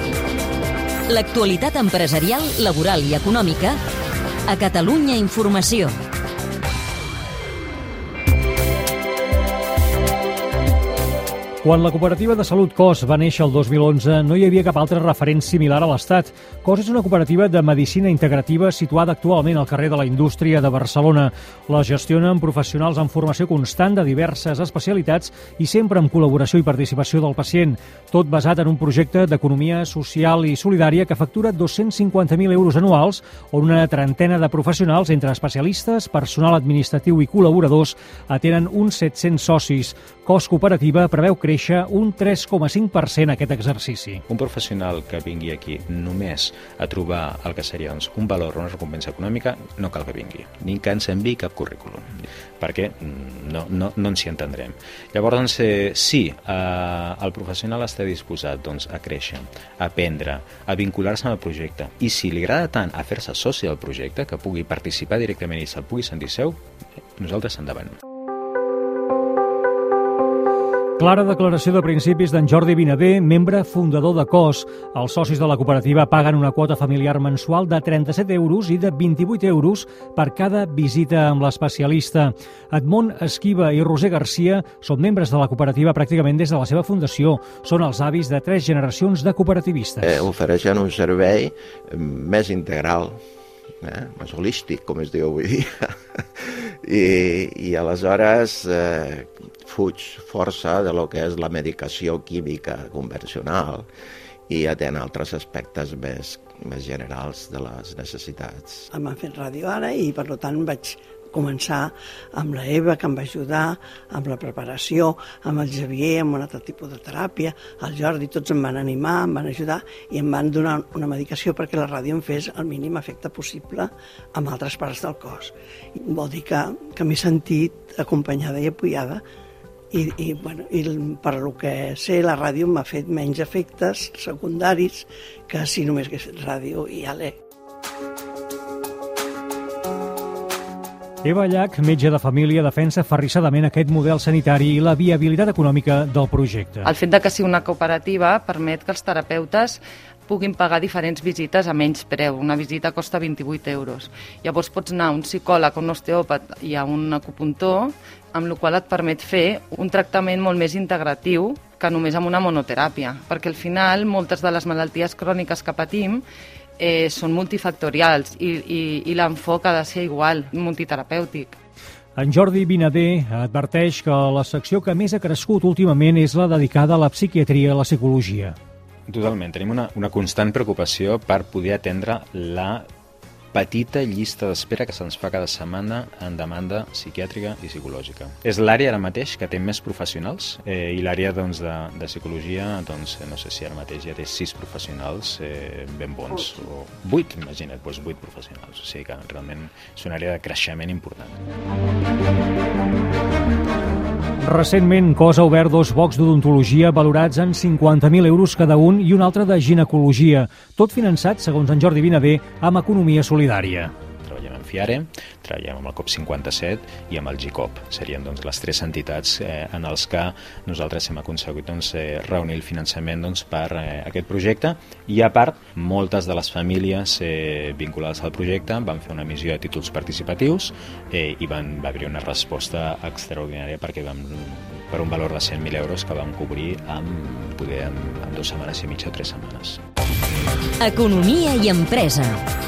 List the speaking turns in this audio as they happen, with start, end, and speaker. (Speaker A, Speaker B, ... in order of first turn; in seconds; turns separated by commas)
Speaker A: 1.1-3.8, Speaker A: 4.5-6.0, Speaker B: 11.6-44.2, Speaker C: 44.3-66.6, Speaker C: 67.2-68.0, Speaker B: 71.0-90.3, Speaker D: 90.0-93.2, Speaker D: 93.8-103.9, Speaker D: 104.5-108.9, Speaker E: 108.9-129.2, Speaker E: 129.9-137.4, Speaker B: 141.2-146.9, Speaker F: 146.8-166.2, Speaker F: 166.8-171.6, Speaker B: 172.2-178.6, Speaker C: 179.1-182.9, Speaker C: 183.5-201.4, Speaker B: 204.4-213.9, Speaker C: 214.2-239.8, Speaker A: 240.8-242.4